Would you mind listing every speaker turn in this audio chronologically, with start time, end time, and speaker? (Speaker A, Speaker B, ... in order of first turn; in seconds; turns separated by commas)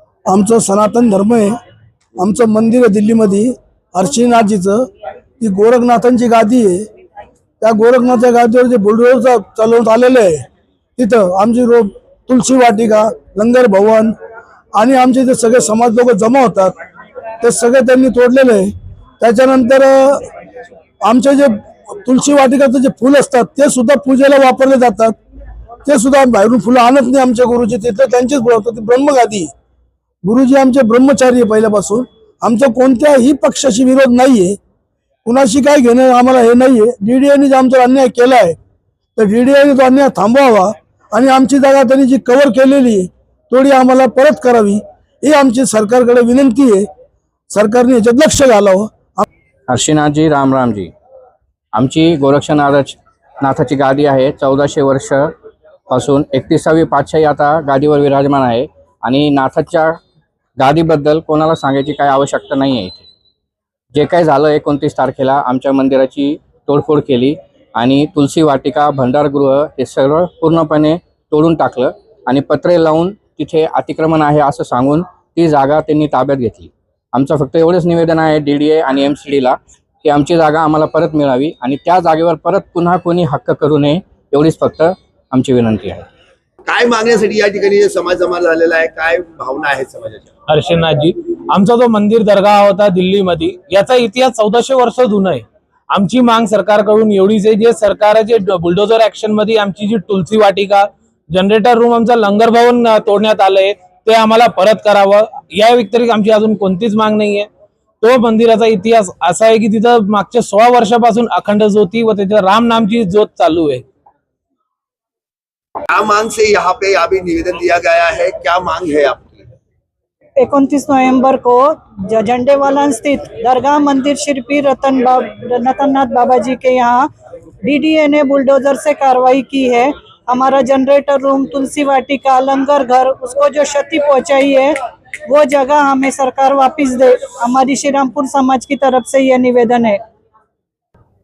Speaker A: 0.3-1.6, Speaker A: 2.2-4.9, Speaker A: 5.4-6.9, Speaker A: 7.6-10.4, Speaker A: 11.0-14.2, Speaker A: 14.8-16.7, Speaker A: 17.4-20.3, Speaker A: 21.0-25.2, Speaker A: 25.9-29.5, Speaker A: 30.2-34.6, Speaker A: 35.2-38.6, Speaker A: 39.2-46.9, Speaker A: 47.5-49.2, Speaker B: 49.7-50.9, Speaker B: 51.7-55.3, Speaker B: 55.9-60.0, Speaker B: 60.6-63.1, Speaker B: 63.9-86.1, Speaker C: 86.7-90.3, Speaker D: 90.5-107.5, Speaker D: 108.0-113.8, Speaker C: 115.9-119.5, Speaker E: 120.4-127.1, Speaker E: 127.6-134.7, Speaker E: 135.3-140.0